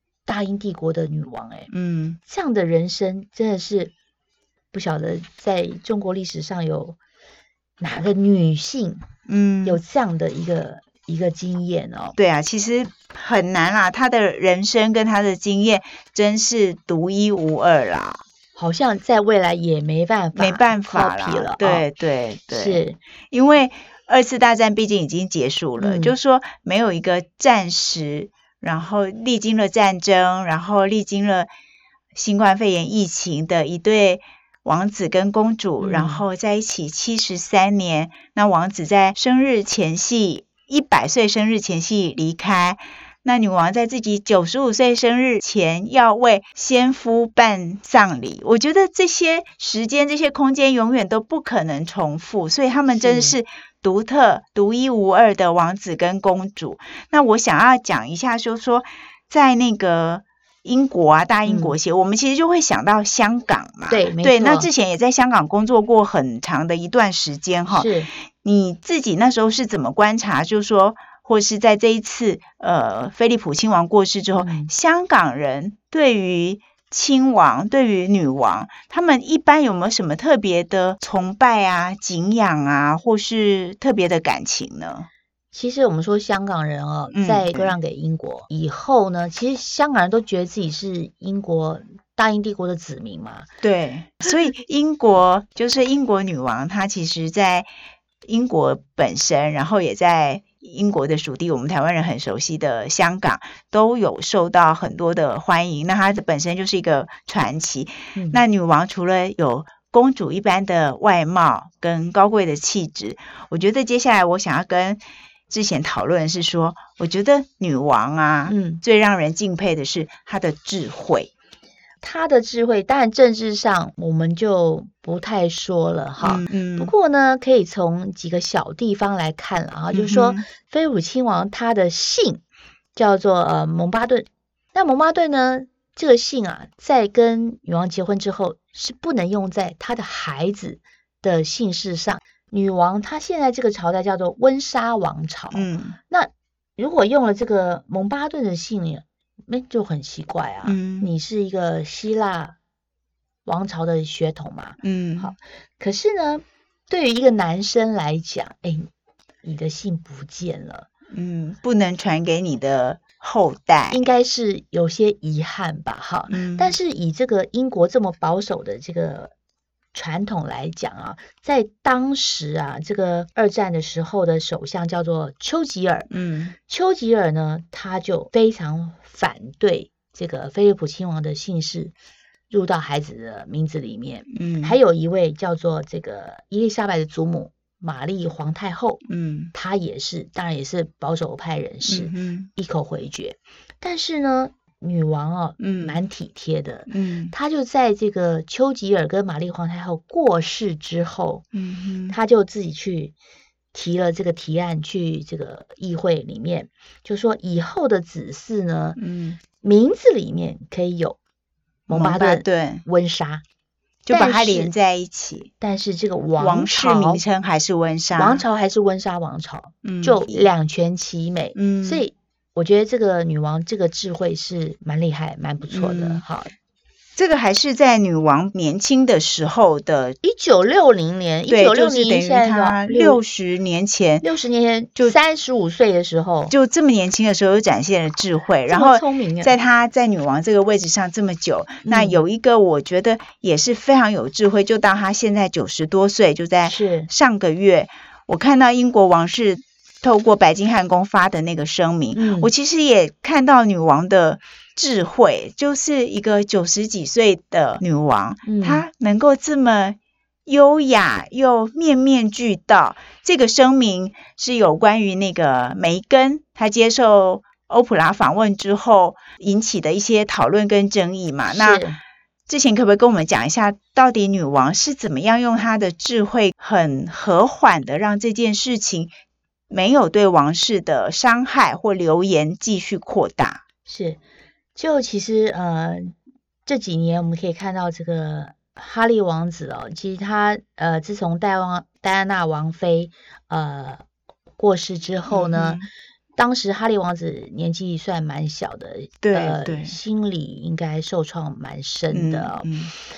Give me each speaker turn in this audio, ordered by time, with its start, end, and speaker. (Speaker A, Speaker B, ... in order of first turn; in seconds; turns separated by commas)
Speaker A: 0.3-1.7, Speaker B: 1.7-2.2, Speaker A: 2.3-3.9, Speaker A: 4.7-7.0, Speaker A: 7.8-9.0, Speaker B: 9.3-9.8, Speaker A: 9.7-12.2, Speaker B: 12.2-18.2, Speaker A: 18.6-21.9, Speaker B: 20.4-31.5, Speaker A: 22.5-23.0, Speaker A: 25.8-26.1, Speaker B: 32.1-85.1, Speaker A: 35.8-36.2, Speaker A: 52.9-53.4, Speaker A: 61.5-61.8, Speaker A: 63.9-64.7, Speaker A: 67.7-68.1, Speaker A: 74.4-74.7, Speaker A: 85.5-93.5, Speaker B: 87.1-87.7, Speaker B: 93.6-97.7, Speaker B: 98.3-121.3, Speaker A: 108.2-108.4, Speaker A: 118.5-118.8, Speaker A: 122.0-132.4, Speaker B: 126.2-126.9, Speaker B: 129.9-130.4, Speaker A: 132.9-152.6, Speaker B: 145.5-146.0, Speaker B: 150.7-151.1, Speaker A: 153.5-158.9, Speaker B: 154.8-155.3, Speaker A: 159.4-160.9, Speaker B: 161.1-164.1, Speaker A: 163.9-169.3, Speaker B: 166.3-166.7, Speaker A: 169.9-176.1, Speaker B: 176.1-176.6, Speaker A: 176.6-181.9, Speaker A: 182.5-189.0, Speaker B: 184.3-184.8, Speaker B: 189.1-189.5, Speaker A: 189.5-201.4, Speaker B: 191.9-192.5, Speaker B: 195.6-196.0, Speaker B: 196.9-197.3, Speaker B: 201.5-202.2, Speaker A: 202.1-203.2, Speaker A: 203.7-209.0, Speaker B: 209.0-209.4, Speaker A: 209.6-211.2, Speaker A: 211.9-213.4, Speaker B: 211.9-212.8, Speaker B: 214.1-215.5, Speaker A: 214.1-214.7, Speaker A: 215.6-217.2, Speaker B: 216.4-218.4, Speaker A: 218.2-226.5, Speaker B: 219.8-220.5, Speaker B: 221.6-222.0, Speaker B: 225.7-226.2, Speaker B: 227.2-230.2, Speaker A: 230.2-233.2, Speaker B: 231.5-234.3, Speaker A: 234.2-236.5, Speaker B: 236.5-271.8, Speaker A: 238.7-239.5, Speaker A: 241.9-242.2, Speaker A: 246.6-247.1, Speaker A: 252.1-252.5, Speaker A: 258.5-258.9, Speaker A: 271.5-272.0, Speaker B: 272.5-279.1, Speaker B: 279.7-283.6, Speaker A: 283.9-284.2, Speaker A: 284.8-286.1, Speaker A: 286.7-294.0, Speaker A: 294.6-295.8, Speaker B: 295.3-295.9, Speaker A: 296.4-302.7, Speaker B: 299.2-300.0, Speaker B: 302.1-302.9